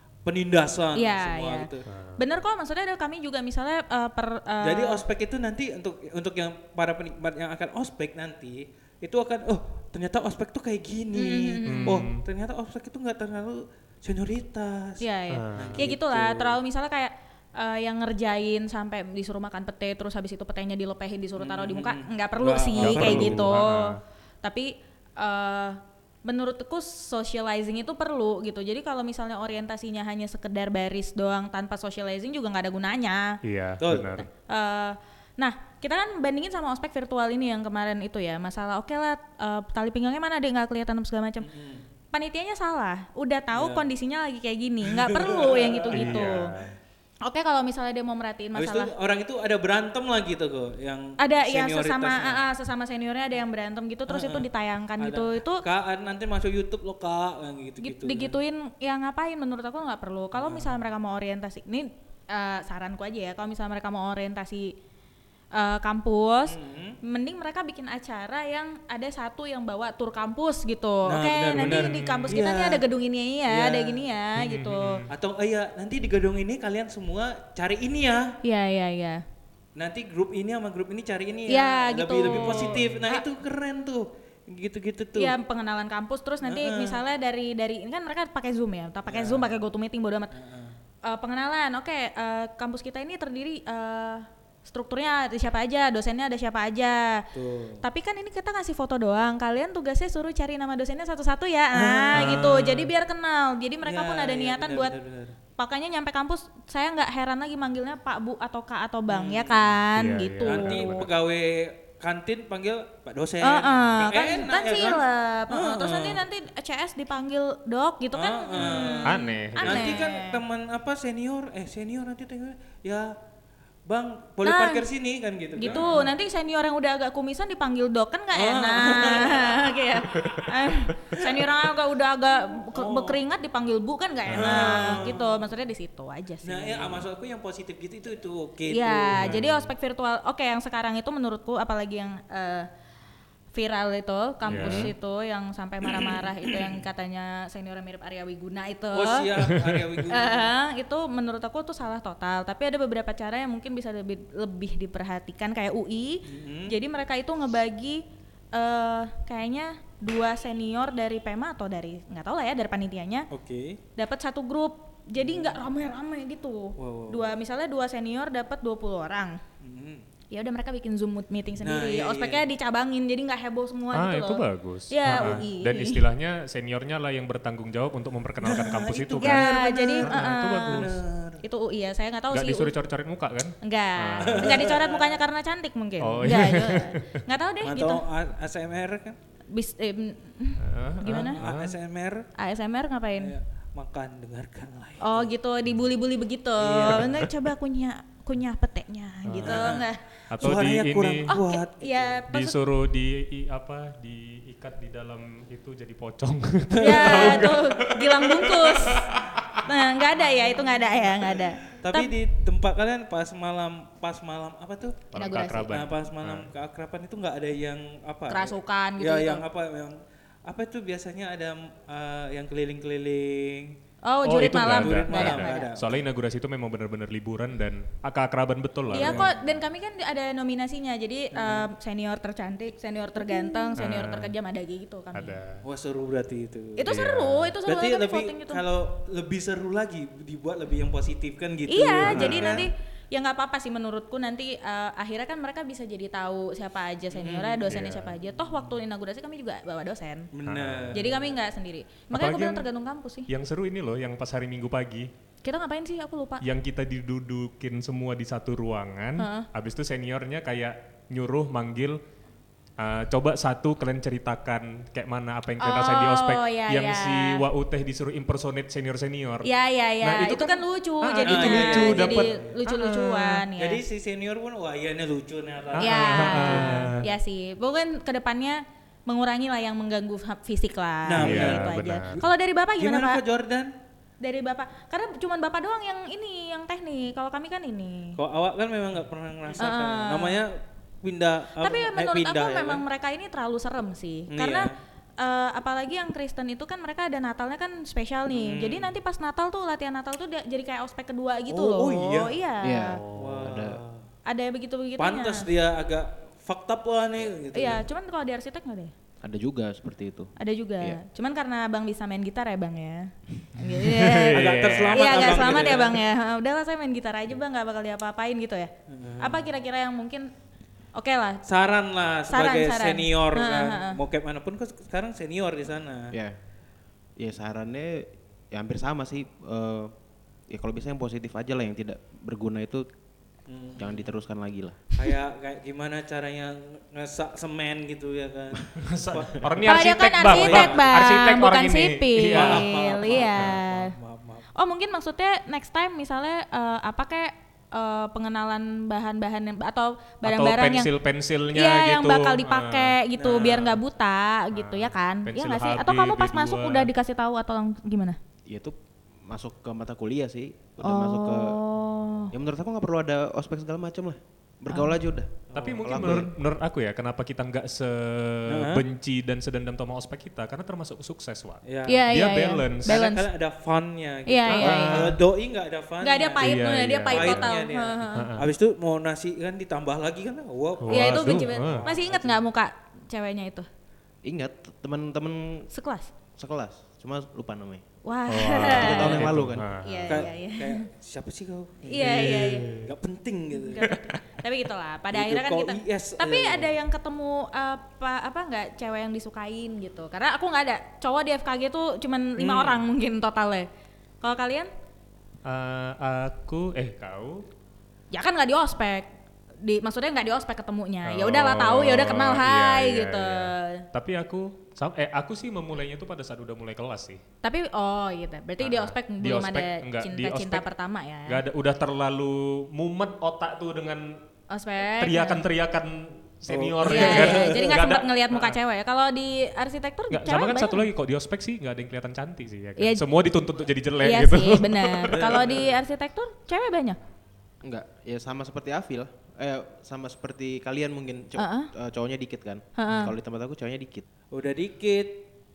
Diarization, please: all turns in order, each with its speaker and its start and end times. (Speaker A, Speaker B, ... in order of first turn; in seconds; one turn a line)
Speaker A: 0.2-1.9
Speaker B: 0.9-5.0
Speaker C: 1.9-2.2
Speaker A: 4.6-15.0
Speaker B: 11.1-12.0
Speaker C: 11.7-12.2
Speaker B: 15.0-33.4
Speaker C: 15.3-15.9
Speaker A: 15.6-16.6
Speaker A: 21.4-23.5
Speaker C: 22.8-24.0
Speaker C: 33.4-34.3
Speaker A: 33.8-34.2
Speaker B: 34.2-41.5
Speaker A: 41.4-41.8
Speaker B: 42.1-46.5
Speaker A: 43.5-43.9
Speaker A: 44.8-46.3
Speaker C: 45.9-46.7
Speaker B: 47.2-48.9
Speaker A: 48.5-52.4
Speaker B: 51.2-55.6
Speaker A: 54.1-54.5
Speaker A: 55.0-58.4
Speaker B: 57.8-64.7
Speaker A: 60.4-60.7
Speaker B: 65.5-75.0
Speaker A: 66.5-67.0
Speaker A: 71.0-72.8
Speaker C: 71.6-72.4
Speaker A: 73.5-74.0
Speaker C: 74.4-75.1
Speaker A: 75.1-78.3
Speaker B: 78.4-79.2
Speaker A: 79.8-85.3
Speaker B: 81.5-83.2
Speaker C: 82.2-83.0
Speaker B: 85.2-90.3
Speaker A: 86.4-87.0
Speaker A: 89.1-89.5
Speaker A: 90.3-90.8
Speaker B: 91.0-97.2
Speaker A: 97.3-97.8
Speaker B: 97.8-104.9
Speaker A: 101.7-102.3
Speaker C: 102.1-102.9
Speaker A: 103.8-105.3
Speaker B: 105.6-111.0
Speaker A: 109.1-109.7
Speaker C: 110.0-111.1
Speaker A: 110.4-116.2
Speaker B: 113.4-120.4
Speaker A: 118.1-123.1
Speaker C: 118.6-120.0
Speaker A: 123.9-126.1
Speaker B: 124.4-124.8
Speaker B: 125.6-137.0
Speaker C: 125.7-125.9
Speaker A: 128.3-129.7
Speaker A: 131.1-131.5
Speaker A: 132.7-133.2
Speaker C: 134.2-135.0
Speaker A: 134.3-135.4
Speaker A: 136.4-139.3
Speaker B: 138.7-142.7
Speaker C: 139.1-139.7
Speaker B: 143.5-149.3
Speaker C: 144.5-144.9
Speaker A: 144.5-144.9
Speaker A: 145.8-146.8
Speaker A: 148.9-150.5
Speaker C: 149.4-149.9
Speaker B: 150.1-158.0
Speaker A: 156.3-156.7
Speaker B: 158.5-163.3
Speaker A: 163.3-163.8
Speaker B: 164.0-169.4
Speaker A: 165.2-165.6
Speaker A: 166.8-167.3
Speaker A: 169.6-170.0
Speaker B: 170.3-176.0
Speaker A: 171.6-172.4
Speaker C: 173.9-181.0
Speaker A: 175.1-175.4
Speaker A: 178.4-181.4
Speaker B: 179.2-180.8
Speaker B: 181.4-182.7
Speaker C: 182.3-184.7
Speaker B: 183.6-188.0
Speaker A: 184.2-185.2
Speaker C: 186.0-187.1
Speaker A: 187.6-189.2
Speaker B: 189.5-191.4
Speaker C: 190.6-191.8
Speaker A: 191.1-192.3
Speaker B: 192.3-193.3
Speaker A: 193.2-195.3
Speaker B: 195.0-200.0
Speaker A: 196.6-197.2
Speaker C: 196.9-197.3
Speaker C: 199.2-201.3
Speaker A: 199.4-199.9
Speaker A: 200.4-202.2
Speaker B: 201.3-202.6
Speaker C: 202.3-209.7
Speaker A: 206.7-207.6
Speaker B: 206.8-209.1
Speaker B: 209.6-212.1
Speaker A: 211.8-215.0
Speaker C: 215.1-216.5
Speaker B: 215.1-215.8
Speaker A: 215.7-223.7
Speaker B: 218.3-219.4
Speaker B: 224.0-225.7
Speaker C: 224.2-229.3
Speaker A: 224.7-225.9
Speaker A: 228.9-229.3
Speaker B: 228.9-235.3
Speaker A: 231.3-231.7
Speaker A: 233.2-233.6
Speaker C: 233.8-234.3
Speaker C: 235.1-235.6
Speaker A: 235.6-236.9
Speaker B: 236.8-238.6
Speaker C: 236.9-237.5
Speaker A: 237.7-242.7
Speaker B: 241.7-250.3
Speaker C: 242.0-242.7
Speaker A: 247.1-247.9
Speaker C: 247.7-248.1
Speaker A: 250.3-251.3
Speaker C: 250.4-251.0
Speaker B: 250.9-253.3
Speaker C: 252.1-252.7
Speaker C: 253.3-255.1
Speaker B: 255.4-256.4
Speaker C: 256.4-262.0
Speaker B: 259.2-259.5
Speaker C: 262.8-269.5
Speaker B: 265.6-267.4
Speaker B: 269.4-273.8
Speaker C: 270.0-273.4
Speaker A: 271.2-272.5
Speaker A: 273.6-276.8
Speaker C: 275.7-277.0
Speaker B: 275.8-283.2
Speaker A: 281.1-282.2
Speaker C: 281.2-282.2
Speaker A: 282.8-283.7
Speaker B: 284.2-288.2
Speaker A: 288.2-292.8
Speaker B: 289.6-290.4
Speaker B: 291.6-303.0
Speaker A: 294.3-294.7
Speaker A: 298.3-298.9
Speaker A: 301.5-302.4
Speaker D: 302.6-303.8
Speaker C: 303.0-303.4
Speaker A: 303.1-304.0
Speaker B: 304.2-305.5
Speaker A: 305.0-307.8
Speaker B: 307.5-308.9
Speaker D: 309.2-311.0
Speaker B: 310.4-320.3
Speaker C: 313.6-315.7
Speaker A: 314.3-316.0
Speaker A: 318.9-319.4
Speaker B: 320.9-321.4
Speaker A: 321.4-326.1
Speaker B: 322.3-324.0
Speaker D: 327.2-329.9
Speaker D: 330.5-332.8
Speaker A: 333.5-334.1
Speaker D: 333.8-334.8
Speaker A: 334.9-341.1
Speaker C: 338.8-342.7
Speaker B: 339.6-343.9
Speaker A: 342.3-344.5
Speaker C: 343.2-343.5
Speaker B: 344.5-350.9
Speaker C: 350.2-352.9
Speaker B: 351.5-358.2
Speaker A: 353.2-353.8
Speaker C: 354.5-356.9
Speaker D: 358.5-358.7
Speaker D: 359.3-361.6
Speaker B: 360.8-362.3
Speaker D: 362.3-366.3
Speaker B: 364.7-364.9
Speaker A: 365.5-366.2
Speaker C: 365.6-373.0
Speaker A: 368.5-368.8
Speaker A: 371.6-372.0
Speaker B: 371.9-373.3
Speaker A: 372.8-382.4
Speaker B: 374.3-375.1
Speaker C: 374.5-375.2
Speaker B: 376.0-378.3
Speaker C: 376.4-377.5
Speaker C: 378.1-378.5
Speaker C: 380.8-381.9
Speaker B: 380.9-383.7
Speaker D: 384.2-385.7
Speaker B: 385.7-386.1
Speaker D: 386.4-387.8
Speaker B: 388.0-389.3
Speaker C: 388.3-390.2
Speaker D: 388.4-389.7
Speaker B: 389.8-390.9
Speaker A: 390.1-393.9
Speaker B: 391.9-392.7
Speaker C: 392.0-392.9
Speaker B: 393.5-403.7
Speaker C: 393.9-394.2
Speaker A: 395.1-396.7
Speaker C: 402.4-402.8
Speaker B: 404.2-404.7
Speaker C: 405.4-407.5
Speaker B: 408.1-409.1
Speaker B: 409.6-413.9
Speaker C: 411.1-417.2
Speaker B: 417.4-421.4
Speaker C: 418.6-420.6
Speaker C: 421.3-424.2
Speaker B: 424.5-425.4
Speaker C: 425.0-428.6
Speaker A: 426.5-427.6
Speaker B: 426.8-430.9
Speaker C: 430.1-435.5
Speaker B: 432.8-433.0
Speaker B: 434.0-437.0
Speaker A: 435.1-435.8
Speaker D: 437.6-444.0
Speaker B: 441.4-441.7
Speaker B: 442.8-443.1
Speaker A: 444.3-445.2